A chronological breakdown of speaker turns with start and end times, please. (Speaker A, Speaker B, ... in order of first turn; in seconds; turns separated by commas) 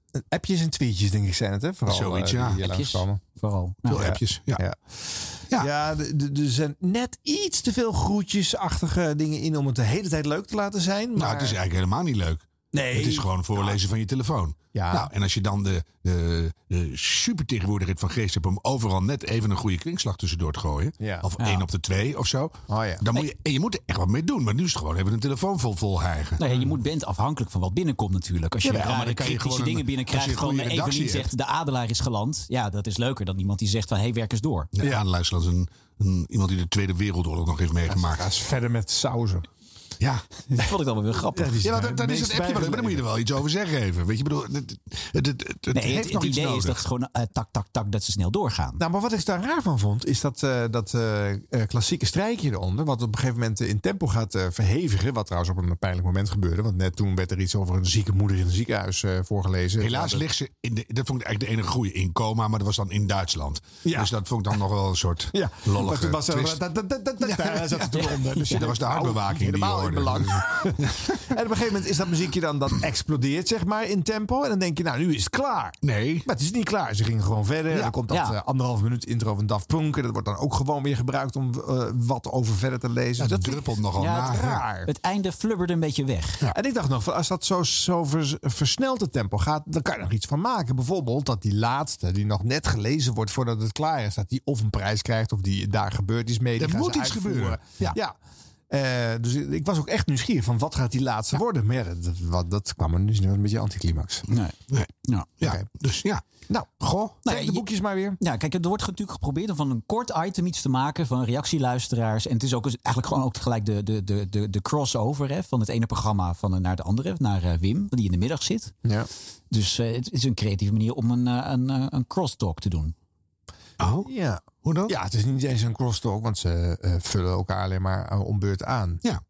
Speaker A: 0.2-3.2, Speaker B: 1.9-2.6, Speaker C: 2.6-4.1, Speaker B: 3.8-4.6, Speaker A: 3.9-4.8, Speaker A: 5.5-11.6, Speaker B: 11.2-26.4, Speaker A: 12.7-13.7, Speaker A: 14.7-15.1, Speaker A: 21.0-21.2, Speaker A: 22.7-23.0, Speaker C: 26.4-34.7, Speaker B: 28.6-31.3, Speaker B: 34.7-38.2, Speaker A: 37.9-39.5, Speaker C: 40.5-41.6, Speaker A: 41.3-43.0, Speaker B: 41.6-46.8, Speaker C: 45.7-48.8, Speaker A: 48.8-60.3, Speaker B: 59.8-66.6, Speaker A: 63.8-64.1, Speaker A: 65.3-84.9, Speaker B: 67.2-71.2, Speaker C: 68.0-68.6, Speaker B: 75.8-76.3, Speaker C: 78.1-78.4, Speaker B: 83.2-84.6, Speaker C: 84.0-86.4, Speaker A: 86.5-98.1, Speaker B: 96.6-98.0, Speaker A: 98.7-104.2, Speaker C: 104.3-104.5, Speaker B: 104.7-106.2, Speaker B: 106.8-107.2, Speaker A: 107.2-108.2, Speaker C: 107.2-107.7, Speaker C: 108.2-118.7, Speaker C: 119.5-122.9, Speaker B: 123.8-124.1, Speaker A: 124.0-129.0, Speaker B: 124.6-124.9